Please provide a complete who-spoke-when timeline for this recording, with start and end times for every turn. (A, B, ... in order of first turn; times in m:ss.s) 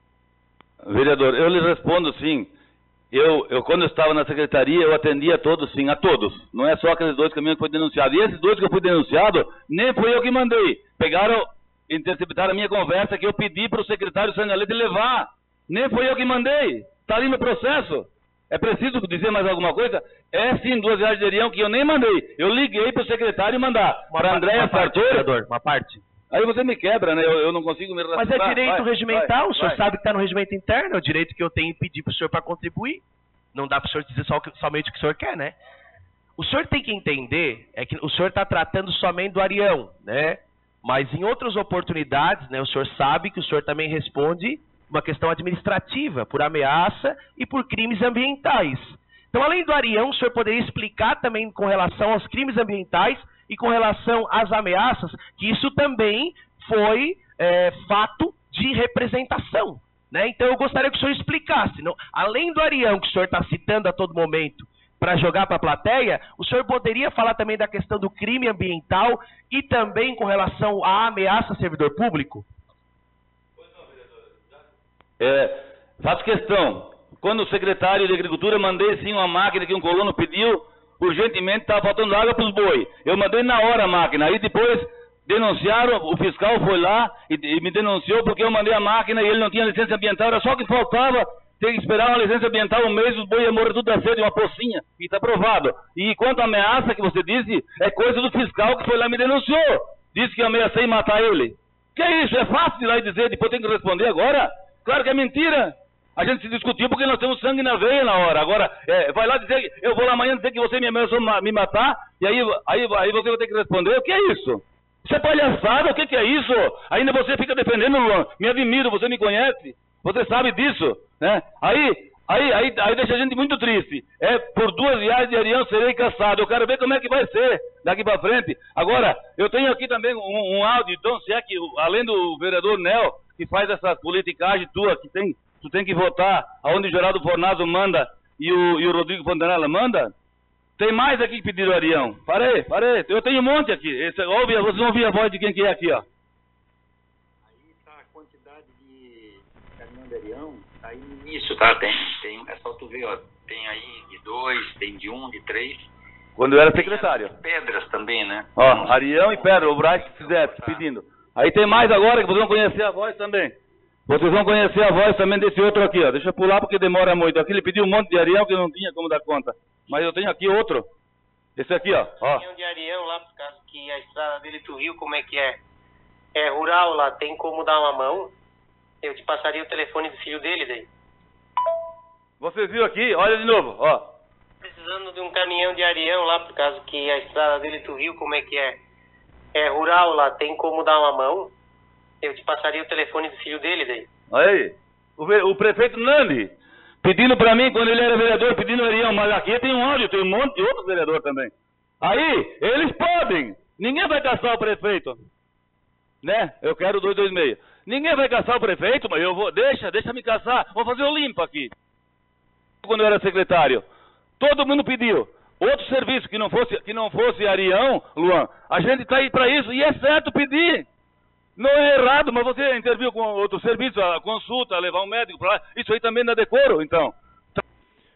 0:00.8-0:02.5 A
0:03.1-0:25.3 A
0:24.1-0:26.0 B
0:26.3-0:29.8 A
0:28.1-0:33.0 B
0:33.5-0:35.5 B
0:36.4-1:12.4 B
1:15.2-2:20.1 A
2:20.8-2:26.0 A
2:27.5-2:35.9 C
2:36.4-2:37.4 A
2:36.6-2:40.8 C
2:38.6-2:43.5 A
2:44.1-2:50.9 A
2:51.6-2:52.4 A
2:52.2-2:55.6 D
2:56.4-2:58.3 D
2:59.0-3:00.9 D
3:02.4-3:04.0 A
3:04.6-3:08.8 D
3:09.5-3:11.5 D
3:12.2-3:14.0 D
3:14.3-3:25.2 A
3:26.2-3:31.7 A
3:32.8-3:33.8 A
3:34.4-3:40.8 A
3:41.6-3:47.6 A